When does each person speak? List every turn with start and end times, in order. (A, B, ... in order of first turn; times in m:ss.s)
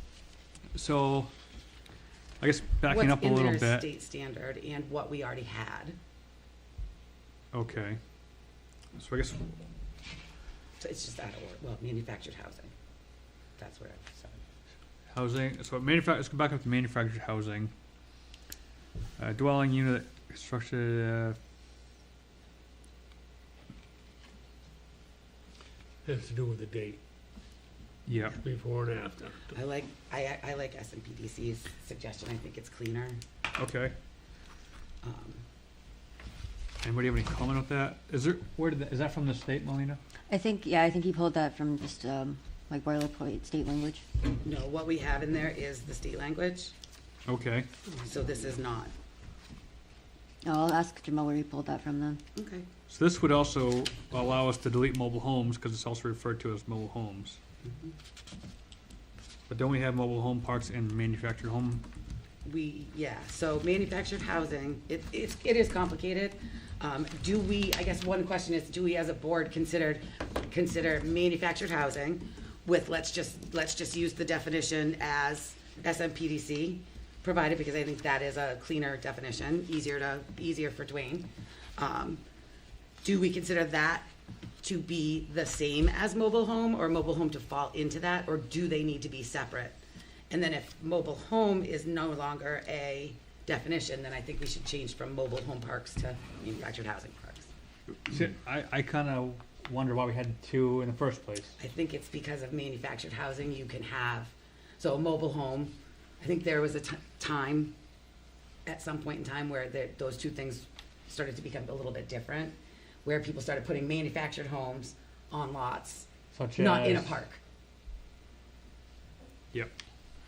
0:00.7-0:01.3 A
0:02.4-0:03.9 A
0:02.8-0:06.0 B
0:07.5-0:08.0 A
0:09.0-0:09.5 A
0:10.8-0:12.7 B
0:13.6-0:14.4 B
0:15.1-0:17.7 A
0:19.2-0:21.4 A
0:26.0-0:27.0 C
0:28.1-0:28.4 A
0:28.4-0:29.6 C
0:29.5-0:33.2 B
0:33.6-0:33.9 A
0:35.0-0:35.4 B
0:36.8-0:40.0 A
0:40.3-0:44.0 D
0:44.4-0:46.7 B
0:47.3-0:47.7 A
0:48.0-0:48.9 B
0:50.4-0:52.2 D
0:52.4-0:52.6 B
0:52.9-0:57.4 A
0:57.6-0:57.9 B
0:59.5-1:01.8 A
1:02.4-1:22.2 B
1:23.0-1:24.1 B
1:24.6-1:37.5 B
1:38.1-1:41.5 A
1:41.6-1:47.7 B
1:48.6-1:57.4 B
1:56.3-1:57.2 A